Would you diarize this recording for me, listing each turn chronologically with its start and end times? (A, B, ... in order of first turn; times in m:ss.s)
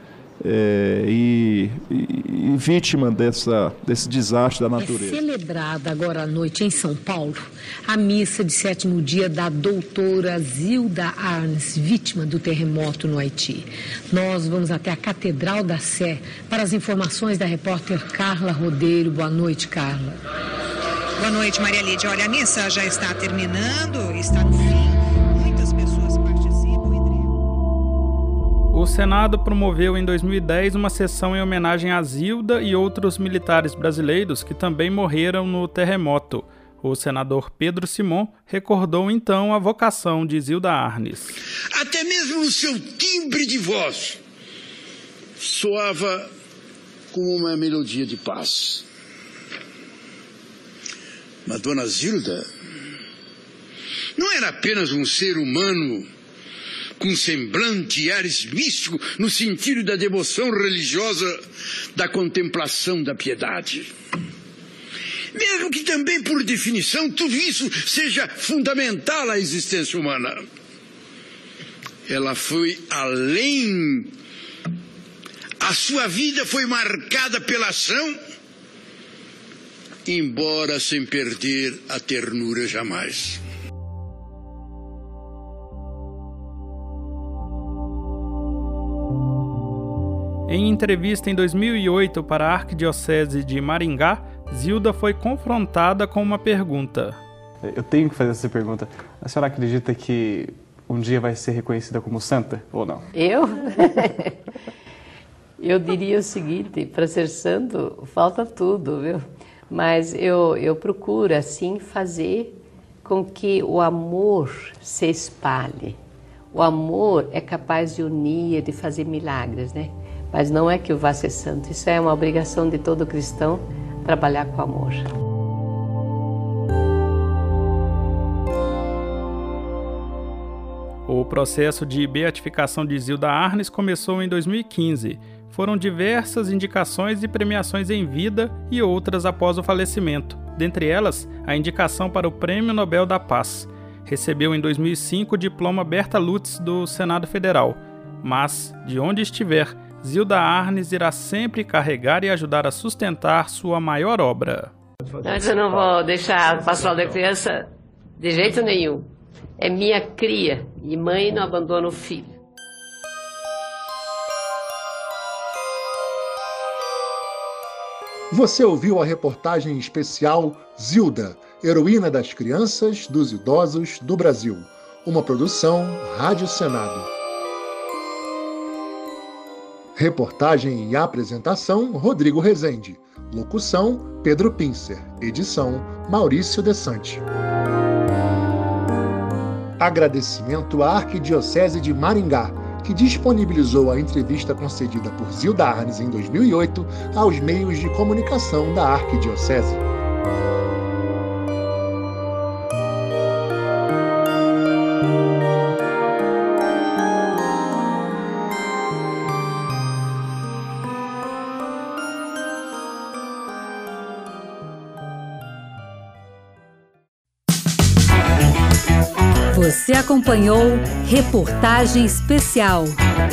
0:00.4-0:05.2 A
0:04.8-0:20.2 B
0:21.2-0:24.8 C
0:25.4-0:27.0 C
0:28.7-0:41.4 D
0:41.8-0:44.2 E
0:42.4-0:44.0 F
0:45.6-0:46.2 F
0:47.2-0:48.6 F
0:47.6-0:48.8 E
0:51.5-0:52.3 F
0:51.6-0:52.4 E
0:54.2-0:56.0 F
0:55.1-0:55.8 E
0:57.0-1:01.3 F
0:57.2-0:58.1 E
1:02.0-1:03.8 F
1:05.4-1:10.3 F
1:12.1-1:13.9 F
1:15.6-1:18.1 F
1:20.1-1:23.3 F
1:30.5-1:37.2 D
1:37.6-1:43.0 E
1:43.1-1:44.3 G
1:45.6-1:56.0 G
1:56.5-2:05.1 G
2:11.1-2:34.7 D
2:35.2-2:37.6 G
2:38.2-2:42.4 G
2:48.3-2:57.1 H
3:00.0-3:07.2 H
3:09.8-3:19.8 H
3:39.5-3:43.0 I